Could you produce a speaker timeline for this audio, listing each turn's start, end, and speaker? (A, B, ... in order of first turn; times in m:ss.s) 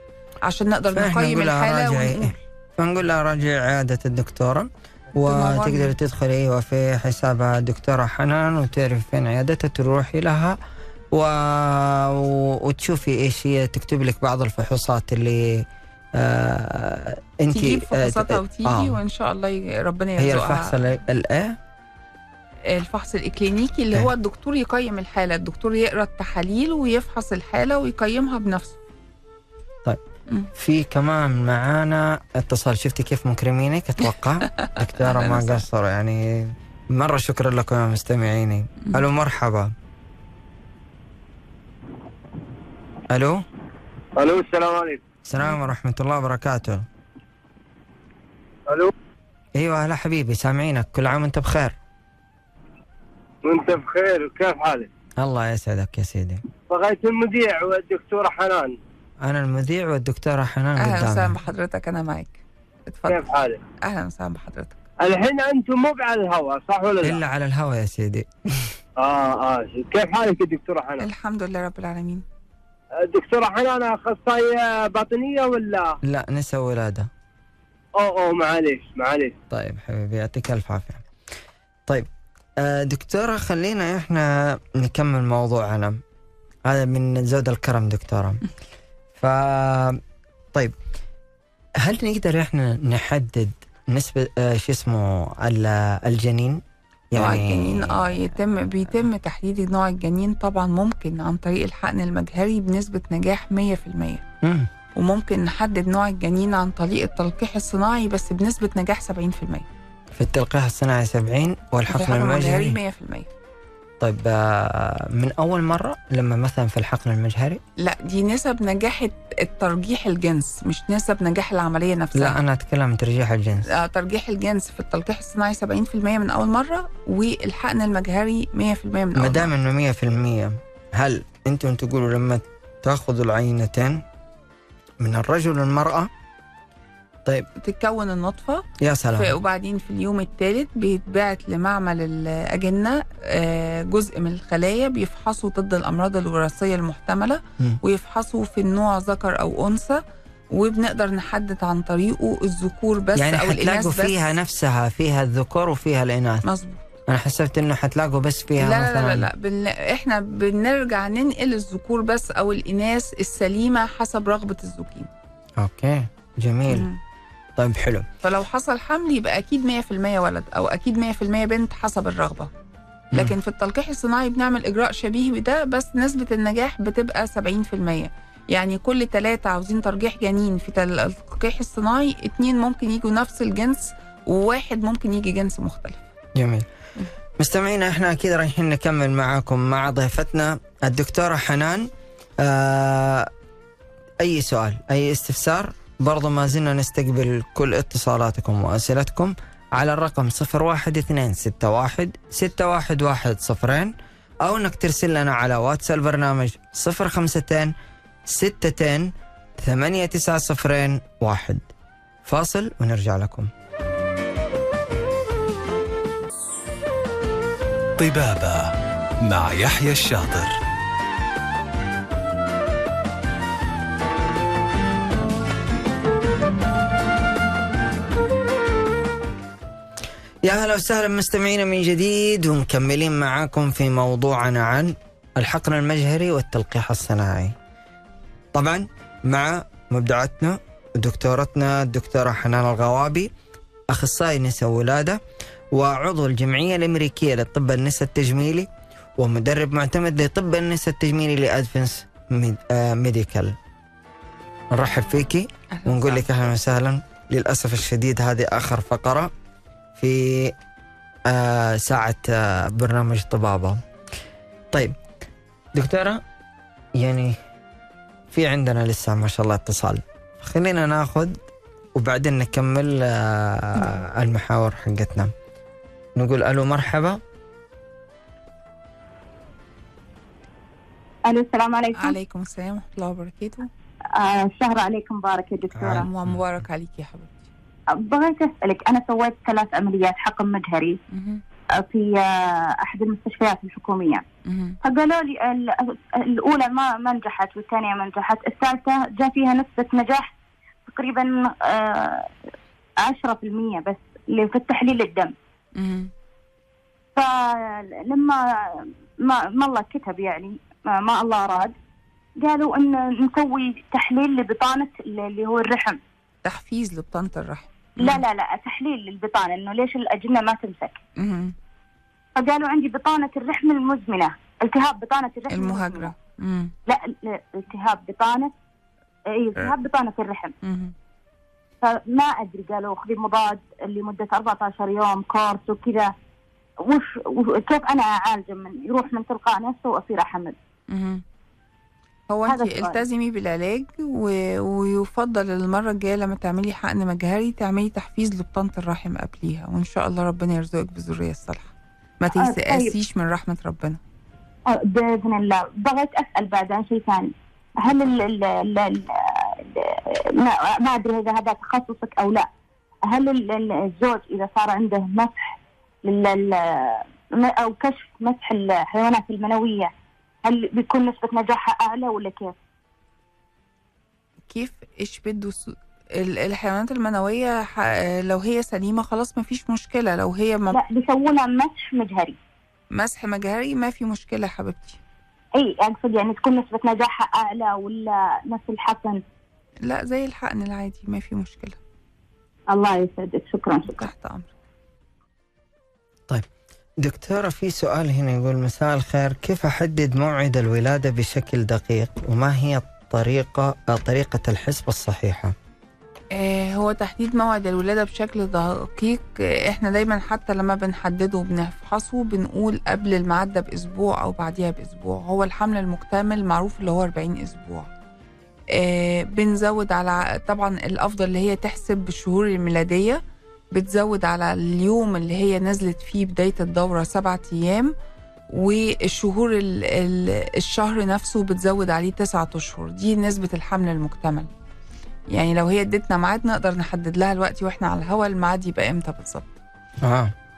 0:00.4-0:02.4 A
0:00.9-0:10.6 B
0:05.3-0:05.9 A
0:11.1-0:19.0 B
0:17.5-0:20.8 A
0:20.2-0:21.6 B
0:22.6-0:28.8 A
0:30.6-0:39.7 B
0:34.6-0:35.6 A
0:43.1-0:43.4 B
0:44.2-0:45.0 C
0:45.2-0:46.8 B
0:48.7-0:48.9 C
0:49.5-0:51.8 B
0:53.4-0:54.9 C
0:55.2-0:56.4 B
0:56.7-0:58.8 C
0:59.2-1:01.4 B
1:00.8-1:03.2 A
1:03.1-1:03.6 C
1:03.8-1:04.8 A
1:05.0-1:07.2 C
1:07.0-1:08.8 B
1:09.0-1:11.1 C
1:11.0-1:12.2 A
1:13.0-1:16.0 C
1:16.0-1:17.1 B
1:18.0-1:19.3 C
1:19.5-1:21.0 B
1:21.9-1:26.0 B
1:26.6-1:28.4 B
1:29.2-1:30.0 B
1:31.8-1:38.3 B
1:37.1-1:44.2 A
1:44.4-1:44.7 B
1:44.9-1:49.7 A
1:50.1-1:52.8 B
1:51.9-1:53.3 A
1:54.0-1:57.6 B
1:57.8-2:02.4 A
2:02.1-2:03.7 B
2:03.7-2:09.5 A
2:09.1-2:14.0 B
2:15.0-2:16.1 B
2:17.6-2:34.3 A
2:18.8-2:19.3 B
2:33.2-2:36.4 B
2:36.4-2:36.8 A
2:37.1-2:39.3 B
2:38.6-2:45.1 A
2:45.6-2:46.9 B
2:46.7-2:47.0 A
2:47.6-2:48.0 B
2:48.2-2:52.5 A
2:53.1-3:06.0 A
3:06.3-3:06.6 B
3:07.4-3:13.3 B
3:14.2-3:27.7 B
3:28.2-3:31.7 B
3:32.2-3:33.5 B
3:38.0-3:40.6 D
3:50.4-3:57.5 B
3:58.5-4:03.3 B
4:03.9-4:05.2 B
4:05.7-4:13.6 B
4:14.7-4:19.3 B
4:15.7-4:16.3 A
4:20.0-4:20.6 B
4:21.3-4:23.8 B
4:24.7-4:25.0 B
4:25.7-4:26.2 B
4:27.0-4:27.3 B
4:28.3-4:31.4 B
4:32.0-4:35.3 B
4:36.2-4:37.2 B
4:41.2-4:42.2 E
4:41.9-4:43.7 A
4:44.1-4:46.0 E
4:45.7-4:46.4 B
4:45.9-4:47.5 A
4:47.9-4:51.0 E
4:51.1-4:51.4 A
4:51.8-4:54.2 E
4:54.4-4:54.8 A
4:54.8-5:00.3 E
5:00.9-5:02.3 E
5:03.0-5:05.3 E
5:05.8-5:06.1 A
5:07.2-5:11.7 E
5:12.4-5:16.0 E
5:16.4-5:18.2 A
5:18.0-5:21.0 E
5:21.2-5:21.5 A
5:22.4-5:26.1 E
5:25.5-5:26.7 A
5:26.9-5:28.5 E
5:29.3-5:30.5 E
5:30.6-5:30.9 A
5:31.8-5:36.1 E
5:36.8-5:40.6 E
5:40.9-5:41.2 A
5:42.3-5:54.0 A
5:42.4-5:43.0 E
5:52.4-5:53.0 E
5:54.7-6:02.5 E
6:03.1-6:09.9 E
6:10.4-6:12.5 E
6:14.5-6:20.8 A
6:20.7-6:22.4 E
6:22.9-6:25.0 A
6:25.5-6:29.2 E
6:29.8-6:31.8 A
6:32.7-6:34.1 E
6:33.9-6:34.5 A
6:37.0-6:45.5 B
6:46.3-6:57.9 A
6:58.7-7:07.9 A
7:08.5-7:14.5 A
7:15.3-7:19.6 A
7:20.0-7:20.3 B